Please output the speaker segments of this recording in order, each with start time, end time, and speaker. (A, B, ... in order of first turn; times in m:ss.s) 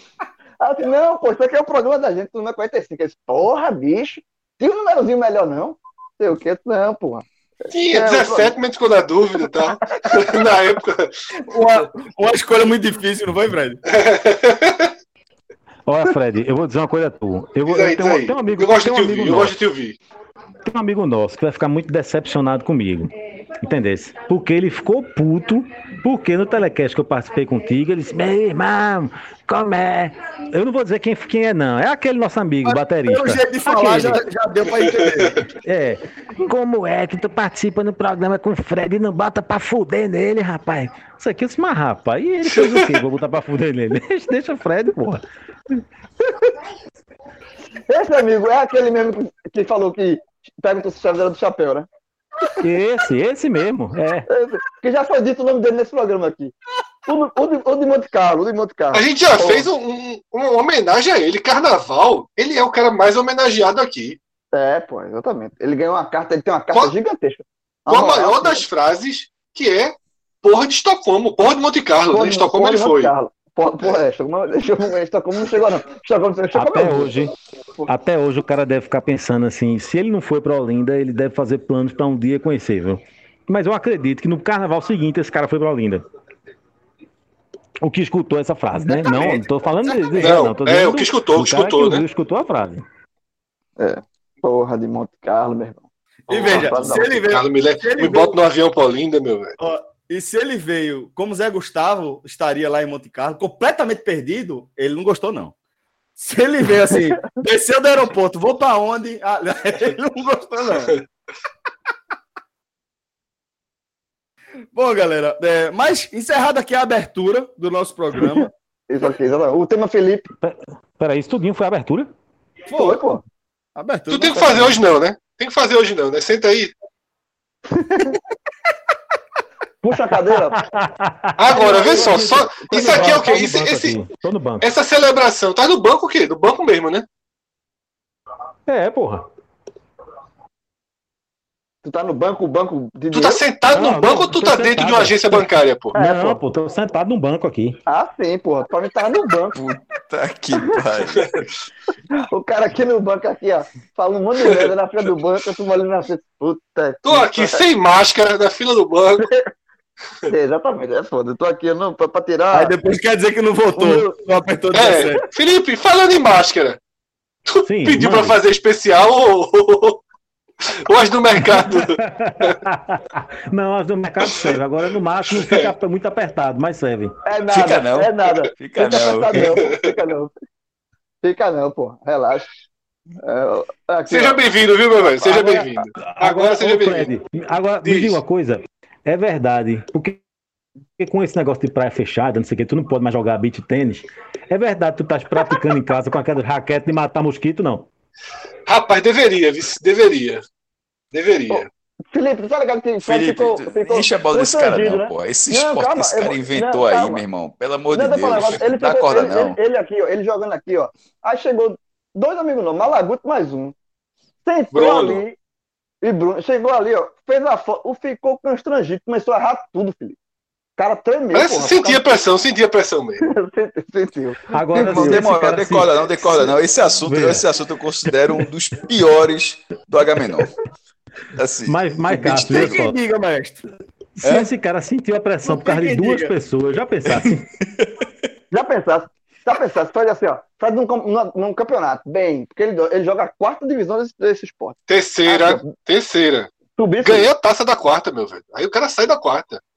0:00.6-0:07.2 A
0:07.7-0:11.9 B
0:07.9-0:08.5 A
0:11.5-0:13.8 C
0:13.9-0:14.9 B
0:15.9-0:19.5 D
0:17.7-0:20.0 B
0:20.6-0:23.1 D
0:23.6-0:34.2 D
0:32.6-0:35.4 C
0:35.6-0:45.2 D
0:42.5-0:42.8 B
0:47.9-0:51.9 A
0:52.6-0:54.2 D
0:54.3-0:56.5 A
0:57.0-0:59.7 A
0:58.9-1:04.2 B
1:04.5-1:08.6 A
1:07.9-1:13.1 B
1:12.1-1:17.3 A
1:16.5-1:17.3 D
1:17.9-1:26.0 D
1:27.8-1:32.8 D
1:28.9-1:30.4 C
1:30.2-1:32.0 B
1:33.8-1:37.2 A
1:36.3-1:38.3 C
1:36.4-1:39.5 B
1:39.6-1:45.5 C
1:46.2-1:51.0 C
1:54.7-1:58.5 C
1:58.1-2:00.3 A
2:00.4-2:02.1 D
2:02.7-2:03.0 C
2:02.7-2:03.2 A
2:03.7-2:04.8 C
2:04.1-2:06.7 B
2:07.7-2:08.2 A
2:09.8-2:10.6 A
2:10.6-2:14.7 D
2:11.4-2:14.0 B
2:11.5-2:13.2 A
2:14.6-2:17.0 B
2:18.7-2:19.2 D
2:21.8-2:23.4 A
2:23.1-2:25.9 B
2:23.7-2:27.8 D
2:25.9-2:26.4 A
2:27.9-2:29.6 A
2:29.5-2:31.3 E
2:32.1-2:37.7 A
2:37.0-2:39.3 B
2:39.2-2:39.5 A
2:40.3-2:42.7 A
2:42.5-2:45.2 C
2:43.8-2:44.2 A
2:44.7-2:46.8 B
2:47.5-2:50.0 B
2:47.6-2:48.4 D
2:50.8-2:52.5 B
2:51.4-2:57.1 D
2:54.2-2:54.6 B
2:57.2-3:00.3 A
2:57.5-2:59.5 E
3:01.2-3:02.5 A
3:03.2-3:04.4 A
3:04.1-3:07.1 B
3:05.0-3:05.7 A
3:06.0-3:10.2 D
3:07.8-3:08.2 B
3:11.0-3:17.9 D
3:18.7-3:20.4 B
3:21.1-3:21.7 B
3:21.5-3:27.2 A
3:23.0-3:29.6 E
3:27.9-3:33.7 A
3:34.4-3:35.4 A
3:34.7-3:35.2 B
3:36.0-3:40.2 A
3:40.8-3:42.0 A
3:41.3-3:43.2 B
3:43.2-3:45.4 A
3:44.5-3:45.9 D
3:44.7-3:50.5 E
3:46.2-3:46.5 A
3:47.0-3:47.4 D
3:51.4-3:52.7 E
3:51.6-3:53.0 D
3:52.3-3:53.6 C
3:54.2-3:57.5 D
3:54.2-3:54.5 E
3:55.4-3:56.3 C
3:57.8-3:58.0 E
3:58.5-4:05.7 A
4:04.9-4:06.5 B
4:06.7-4:07.3 A
4:07.0-4:09.6 B